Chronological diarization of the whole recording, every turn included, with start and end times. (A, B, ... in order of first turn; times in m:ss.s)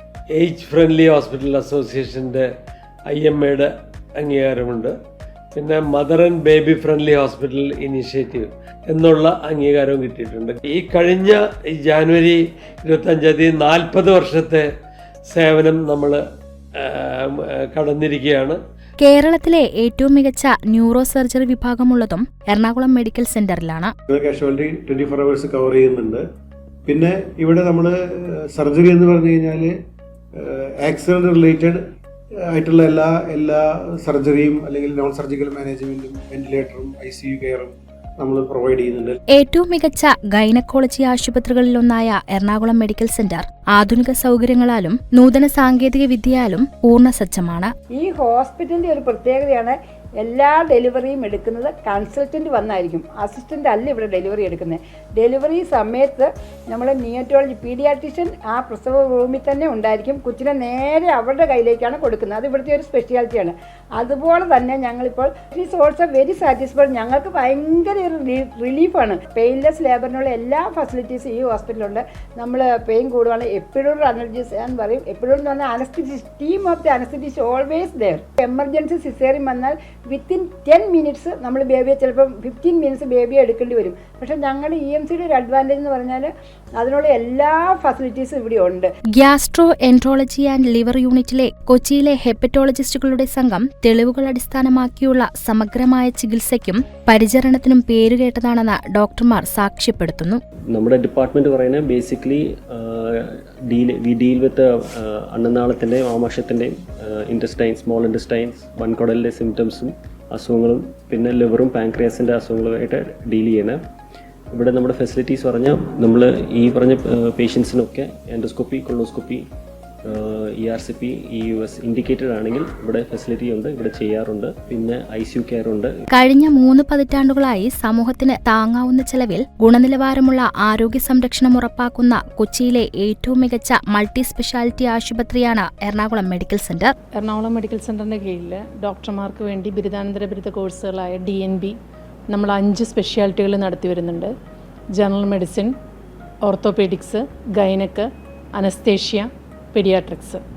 0:00.4-0:02.5 A
0:03.1-0:04.9 A
0:05.6-0:14.7 A
0:15.3-0:16.2 A
0:16.8-0:18.6 A
0:19.0-0:23.9 B
0:24.1-0:26.2 C
0:26.9-0:29.7 C
0:30.4-0:31.8 C
0:32.5-0:39.2 C
0:39.4-0:47.7 B
0:47.9-1:28.9 D
1:29.2-1:40.4 B
1:40.7-1:53.8 E
1:54.5-1:59.4 E
2:00.1-2:06.0 E
2:06.1-2:16.9 B
2:17.2-2:21.7 F
2:22.3-2:24.3 F
2:25.0-2:25.7 F
2:26.5-2:30.4 F